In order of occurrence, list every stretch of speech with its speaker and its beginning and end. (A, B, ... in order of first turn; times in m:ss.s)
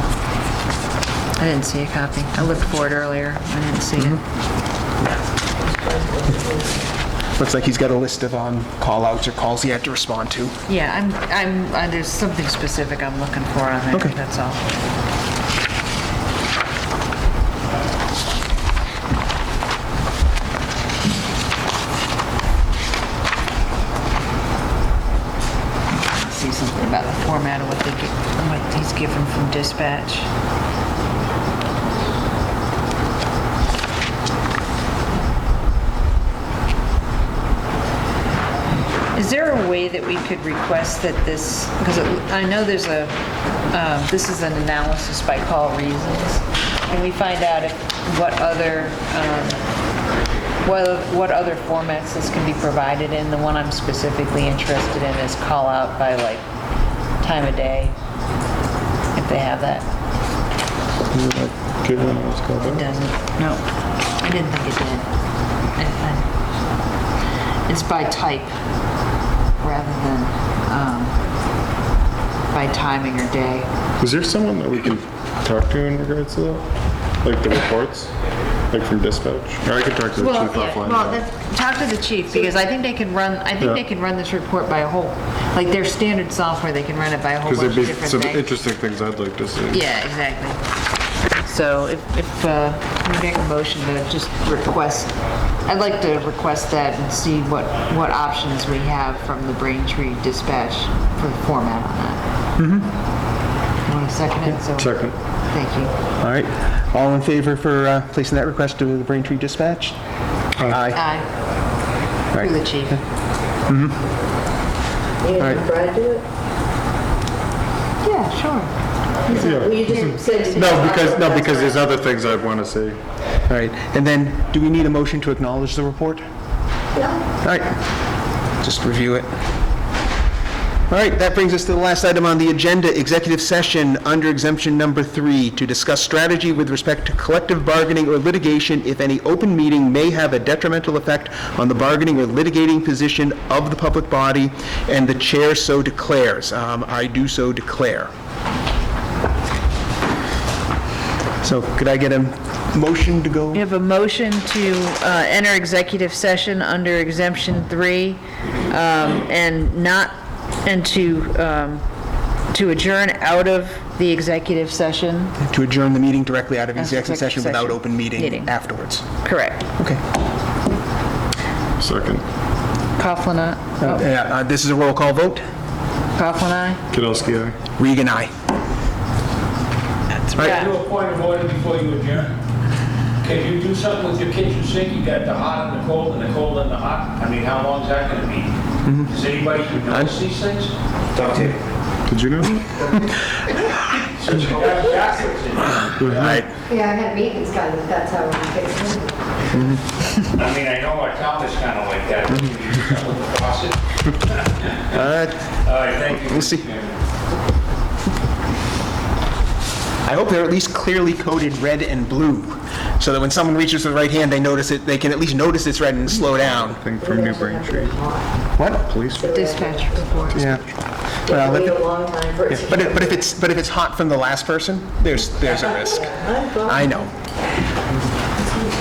0:01.4-0:04.2 A
0:05.6-0:06.9 B
0:07.4-0:10.6 C
0:10.7-0:14.6 A
0:25.9-0:30.3 A
0:39.1-0:43.2 A
0:43.7-0:49.6 A
0:50.6-0:56.4 A
0:57.2-0:57.9 A
0:59.1-0:59.9 A
1:01.1-1:02.9 D
1:02.6-1:05.1 A
1:05.8-1:06.3 A
1:07.7-1:08.6 A
1:09.6-1:11.2 A
1:12.5-1:13.7 A
1:14.0-1:18.1 D
1:18.7-1:21.2 D
1:20.2-1:28.5 A
1:27.4-1:29.8 D
1:29.7-1:30.6 A
1:31.4-1:35.1 A
1:35.6-1:42.2 A
1:42.6-1:42.9 C
1:43.9-1:45.0 A
1:44.8-1:45.1 D
1:45.5-1:45.9 A
1:46.2-1:50.0 C
1:50.6-1:50.9 D
1:50.7-1:51.0 C
1:51.0-1:51.3 A
1:52.4-1:53.0 A
1:53.7-1:54.0 C
1:55.2-1:56.3 B
1:55.4-1:55.6 C
1:58.0-1:58.7 A
1:59.2-2:01.8 B
1:59.3-2:03.0 D
2:03.5-2:06.2 C
2:07.0-2:07.2 B
2:07.4-2:07.8 C
2:08.6-2:09.3 C
2:10.9-2:28.1 C
2:31.4-2:33.6 C
2:33.5-2:41.8 A
2:42.5-2:45.4 A
2:45.4-2:49.1 C
2:46.8-2:48.5 A
2:49.2-2:49.7 A
2:49.8-2:50.0 C
2:51.8-2:52.2 D
2:53.0-2:54.0 A
2:53.8-2:55.4 C
2:56.2-2:56.8 A
2:56.9-2:57.6 D
2:57.8-2:58.3 C
3:00.3-3:00.6 C
3:00.4-3:02.3 E
3:00.4-3:00.7 A
3:03.2-3:08.5 E
3:08.8-3:09.1 C
3:09.0-3:11.6 E
3:12.1-3:12.8 D
3:14.1-3:16.4 E
3:16.0-3:16.4 D
3:16.1-3:16.5 C
3:16.7-3:19.2 B
3:19.5-3:19.8 C
3:20.2-3:24.7 E
3:24.9-3:25.4 C
3:25.6-3:26.9 E
3:26.1-3:26.7 C
3:30.0-3:36.8 C
3:36.5-3:38.3 B
3:36.7-3:38.0 D
3:38.6-3:38.8 C
3:38.8-3:39.2 D
3:39.1-3:40.4 B
3:39.3-3:40.7 A
3:40.4-3:40.6 C
3:41.3-3:43.2 B
3:41.3-3:41.8 C
3:42.5-3:46.1 C
3:45.4-3:47.1 B
3:46.6-3:47.1 C
3:48.4-3:48.7 B